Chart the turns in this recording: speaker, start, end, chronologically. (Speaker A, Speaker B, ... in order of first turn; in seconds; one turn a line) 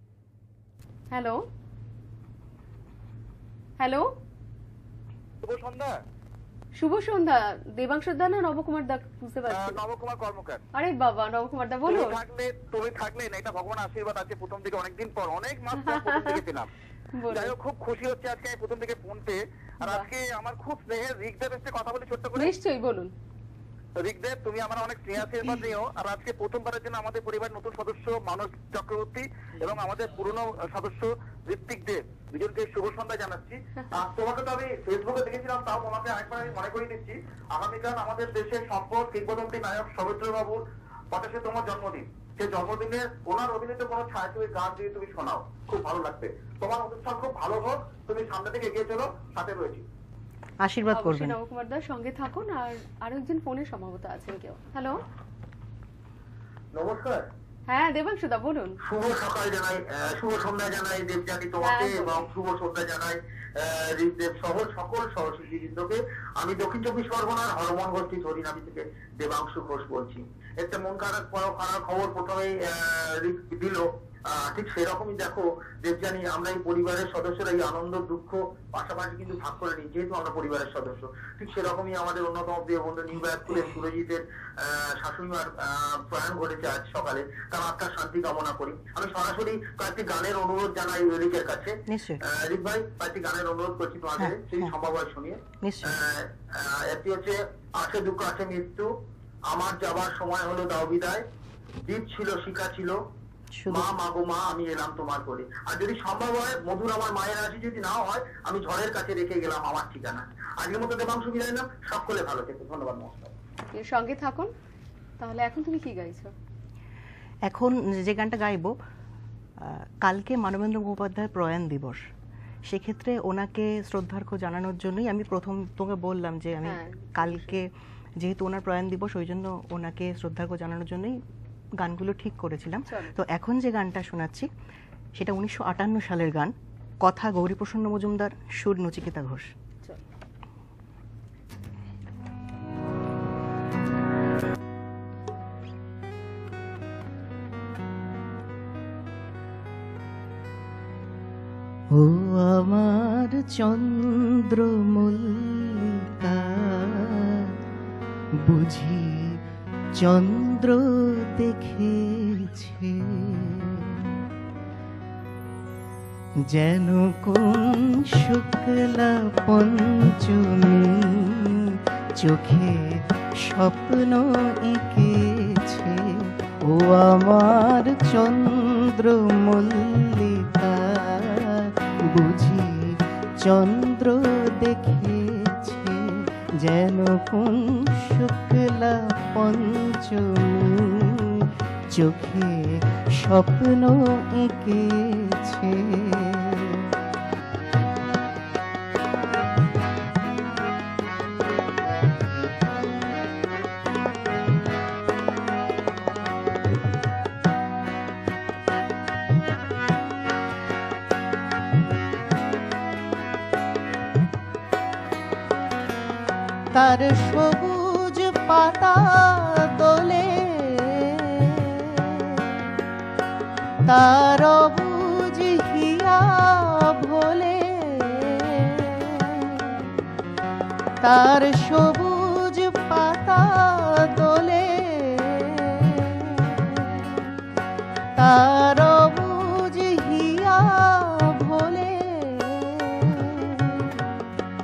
Speaker A: 1.1-1.4
Speaker A: 3.8-4.1
Speaker B: 5.4-6.0
Speaker A: 6.8-9.8
Speaker B: 9.5-10.6
Speaker A: 10.8-12.2
Speaker B: 11.9-16.7
Speaker A: 15.8-16.4
Speaker A: 17.1-17.5
Speaker B: 17.3-22.5
Speaker A: 19.8-20.1
Speaker A: 22.4-23.1
Speaker B: 24.0-49.8
Speaker C: 50.6-51.4
Speaker A: 50.9-55.0
Speaker B: 56.7-57.3
Speaker A: 57.7-58.8
Speaker B: 58.8-98.9
Speaker A: 61.6-62.3
Speaker C: 91.9-92.2
Speaker C: 94.2-94.7
Speaker C: 95.6-96.0
Speaker B: 99.5-101.2
Speaker B: 101.9-102.9
Speaker C: 103.5-103.9
Speaker B: 103.7-113.3
Speaker A: 113.7-114.5
Speaker A: 115.2-116.3
Speaker C: 117.5-118.7
Speaker C: 119.6-122.0
Speaker C: 122.6-131.2
Speaker A: 126.6-127.6
Speaker C: 131.8-134.5
Speaker A: 132.9-133.1
Speaker C: 135.2-139.5
Speaker C: 151.9-157.6
Speaker C: 158.5-159.4
Speaker C: 160.0-164.1
Speaker C: 166.5-196.9
Speaker C: 216.7-222.7
Speaker C: 223.9-229.9
Speaker C: 231.0-237.3
Speaker C: 238.2-244.0